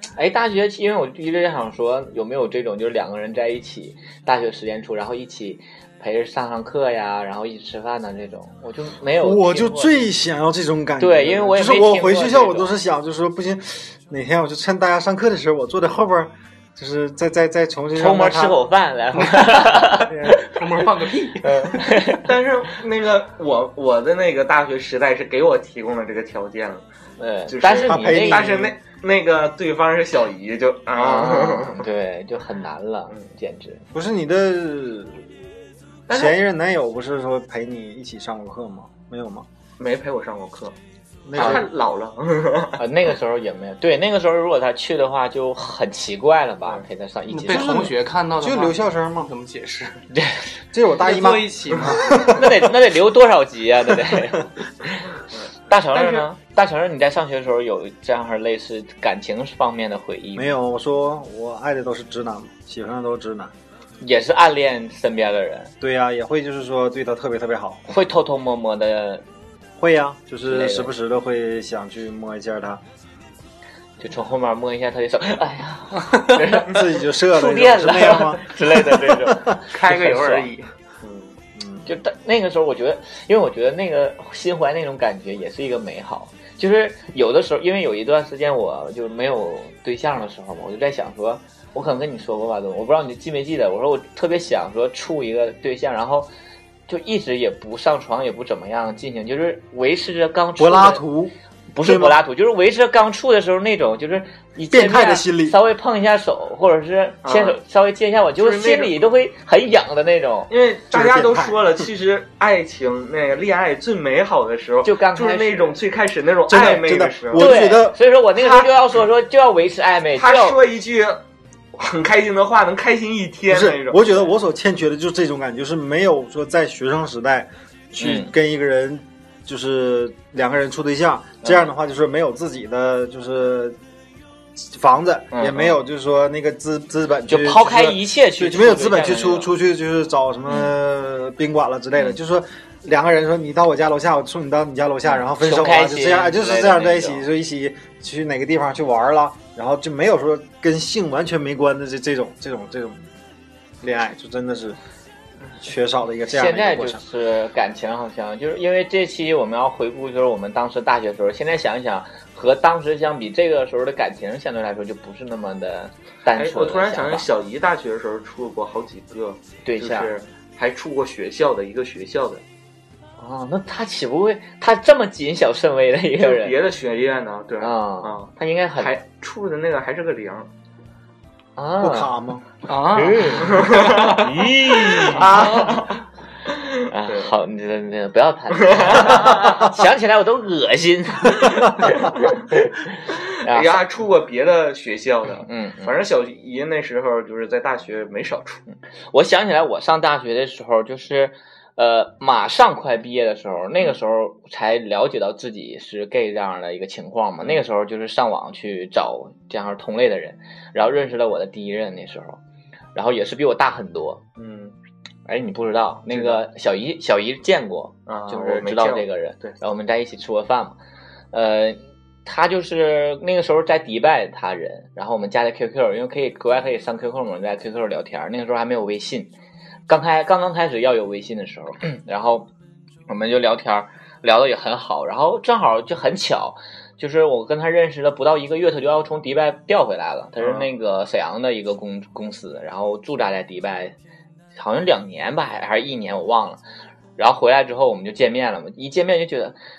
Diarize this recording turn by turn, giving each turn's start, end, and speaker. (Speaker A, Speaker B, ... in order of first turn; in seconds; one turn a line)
Speaker A: 0.1-10.0
Speaker B: 9.2-18.6
Speaker A: 11.0-12.8
Speaker A: 17.9-20.5
Speaker C: 19.2-21.8
Speaker A: 21.4-22.3
Speaker D: 22.2-26.8
Speaker A: 27.2-28.6
Speaker D: 27.5-31.9
Speaker B: 27.8-28.7
Speaker A: 30.9-33.9
Speaker B: 33.9-35.3
Speaker D: 36.1-36.4
Speaker B: 36.1-39.5
Speaker D: 39.8-40.8
Speaker B: 41.3-41.7
Speaker D: 41.3-42.8
Speaker A: 41.4-41.6
Speaker A: 42.8-47.9
Speaker C: 47.3-50.0
Speaker B: 47.5-49.3
Speaker A: 50.1-50.5
Speaker B: 50.7-52.7
Speaker C: 51.0-52.3
Speaker A: 52.3-55.0
Speaker D: 55.3-56.2
Speaker A: 55.7-60.5
Speaker B: 60.4-63.5
Speaker A: 64.0-65.7
Speaker B: 65.8-67.9
Speaker A: 67.9-69.2
Speaker B: 69.8-72.8
Speaker A: 70.5-70.9
Speaker A: 74.0-80.5
Speaker B: 76.5-79.5
Speaker C: 79.7-80.7
Speaker D: 81.0-81.4
Speaker B: 81.6-81.9
Speaker A: 81.9-96.3
Speaker A: 96.9-101.0
Speaker B: 100.6-102.2
Speaker A: 101.7-110.5
Speaker B: 104.7-105.6
Speaker D: 107.2-107.6
Speaker D: 108.4-109.0
Speaker D: 110.5-117.6
Speaker B: 110.9-111.6
Speaker A: 114.8-115.8
Speaker B: 116.5-118.0
Speaker A: 117.3-120.6
Speaker D: 118.4-118.7
Speaker D: 120.2-121.2
Speaker D: 121.8-124.1
Speaker B: 123.5-133.8
Speaker A: 128.0-128.3
Speaker B: 134.6-153.1
Speaker A: 135.3-135.8
Speaker A: 137.3-139.5
Speaker A: 140.5-140.7
Speaker A: 141.9-142.2
Speaker A: 145.1-147.3
Speaker B: 153.8-154.8
Speaker B: 155.6-157.0
Speaker A: 156.3-167.3
Speaker D: 166.4-172.4
Speaker A: 169.6-170.1
Speaker A: 173.2-176.6
Speaker D: 176.2-180.5
Speaker A: 177.6-178.9
Speaker A: 181.6-182.1
Speaker B: 181.8-182.4
Speaker C: 182.7-184.2
Speaker A: 182.9-185.7
Speaker D: 183.4-184.3
Speaker D: 184.9-187.3
Speaker C: 185.3-185.8
Speaker A: 186.9-192.8
Speaker D: 188.6-189.7
Speaker D: 191.8-192.3
Speaker D: 193.1-198.6
Speaker A: 193.4-193.8
Speaker A: 195.4-196.0
Speaker A: 198.7-212.4
Speaker A: 212.9-214.2
Speaker D: 214.4-214.8
Speaker A: 215.3-220.8
Speaker D: 216.1-216.4
Speaker D: 218.1-219.6
Speaker A: 221.3-229.3
Speaker A: 229.9-232.5
Speaker A: 233.1-243.9
Speaker D: 240.4-240.7
Speaker A: 244.6-246.6
Speaker A: 247.2-249.6